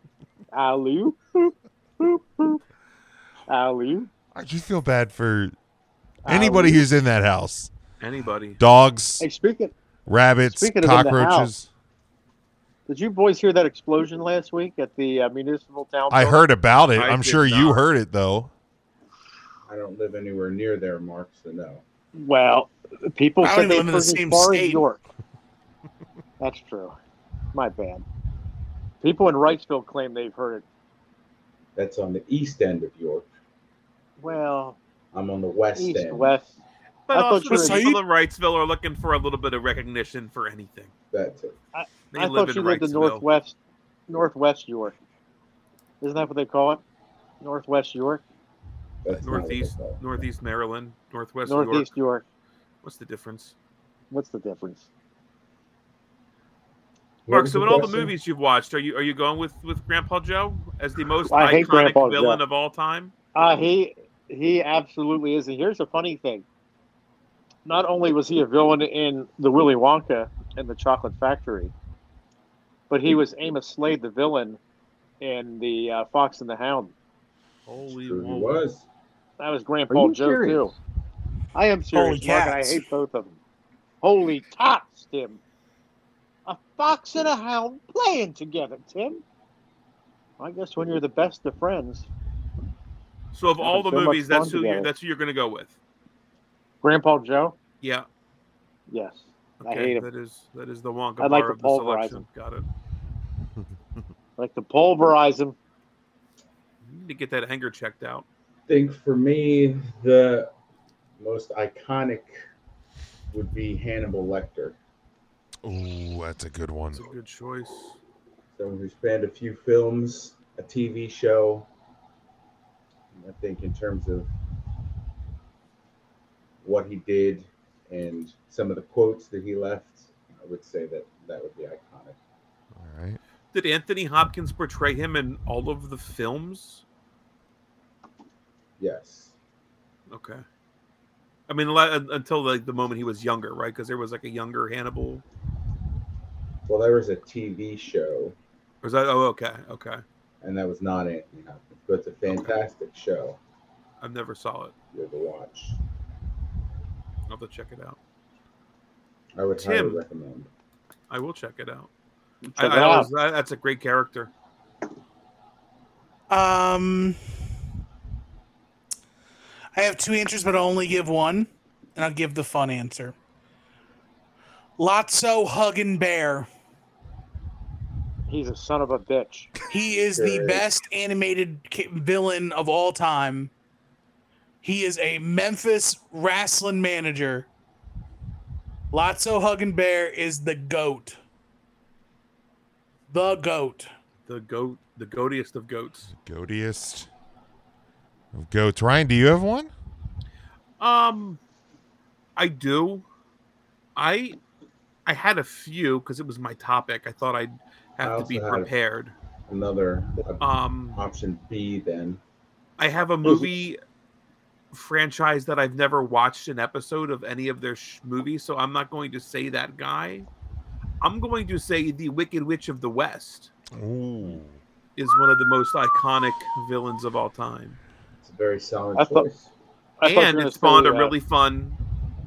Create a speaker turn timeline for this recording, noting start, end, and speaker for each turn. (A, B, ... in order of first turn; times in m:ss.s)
0:00.5-0:02.6 A
0:03.5-0:04.1 A
0:04.3-0:05.6 B
0:06.2-0:06.8 A
0:06.3-0:07.7 B
0:08.0-0:08.6 C
0:08.6-0:09.2 B
0:09.2-0:09.7 A
0:10.1-0:11.7 B
0:10.4-0:11.5 A
0:12.9-0:16.5 A
0:16.1-0:18.5 B
0:17.0-0:17.8 C
0:19.7-0:21.8 D
0:22.2-0:25.0 A
0:23.4-0:24.8 E
0:26.4-0:27.0 A
0:27.5-0:28.1 A
0:29.0-0:30.6 A
0:31.8-0:33.3 D
0:34.2-0:34.8 A
0:35.1-0:36.3 D
0:35.8-0:36.6 A
0:37.1-0:40.9 C
0:37.1-0:37.9 A
0:37.4-0:38.0 E
0:41.1-0:41.6 D
0:41.7-0:43.6 A
0:42.1-0:43.2 C
0:44.1-0:45.0 A
0:46.0-0:46.8 A
0:47.4-0:48.2 A
0:49.0-0:50.3 D
0:49.2-0:51.9 C
0:51.5-0:52.2 A
0:52.8-0:53.6 C
0:54.1-0:54.9 A
0:57.3-0:58.1 D
0:57.3-1:03.1 C
1:01.3-1:02.4 A
1:03.4-1:06.4 A
1:07.7-1:11.7 A
1:12.9-1:14.6 A
1:15.2-1:16.9 A
1:17.7-1:18.6 C
1:17.9-1:18.8 D
1:19.4-1:20.8 A
1:19.9-1:20.5 E
1:21.6-1:23.4 A
1:21.9-1:22.9 E
1:24.0-1:25.4 A
1:26.5-1:29.2 A
1:30.4-1:32.1 A
1:33.3-1:35.8 C
1:33.6-1:34.9 A
1:36.8-1:37.6 A
1:38.9-1:40.1 A
1:39.6-1:42.7 C
1:41.2-1:42.2 A
1:44.4-1:45.6 A
1:46.8-1:48.3 C
1:48.7-1:50.5 D
1:51.2-1:52.4 D
1:53.3-1:54.8 D
1:55.6-1:57.1 B
1:56.9-1:58.0 C
1:58.6-2:01.7 D
2:03.2-2:04.3 D
2:06.6-2:12.2 D
2:12.8-2:13.2 B
2:13.5-2:16.8 C
2:18.8-2:19.4 D
2:20.1-2:20.4 C
2:21.5-2:25.2 C
2:26.7-2:28.4 D
2:28.8-2:30.0 C
2:30.4-2:33.4 D
2:34.0-2:34.7 C
2:34.9-2:35.8 D
2:37.3-2:38.0 C
2:39.4-2:40.5 D
2:39.6-2:40.0 C
2:41.1-2:41.9 C
2:42.4-2:43.1 A
2:42.6-2:44.3 C
2:46.3-2:47.2 E
2:49.8-2:53.2 E
2:54.8-2:56.5 E
2:58.3-2:59.5 A
2:59.7-3:03.5 E
3:00.1-3:00.7 D
3:04.6-3:07.5 E
3:08.9-3:11.2 E
3:13.1-3:13.9 E
3:14.3-3:16.1 C
3:16.1-3:17.1 B
3:18.3-3:19.7 B
3:20.8-3:21.4 C
3:22.4-3:23.0 C
3:24.0-3:24.4 C
3:25.1-3:29.1 C
3:28.0-3:28.7 D
3:29.5-3:32.2 D
3:30.4-3:31.0 C
3:32.8-3:33.8 C
3:34.7-3:40.3 C
3:41.0-3:43.5 C
3:43.7-3:44.6 B
3:45.0-3:47.8 C
3:48.2-3:49.5 D
3:49.0-3:49.3 A
3:50.0-3:51.1 A
3:50.0-3:51.8 C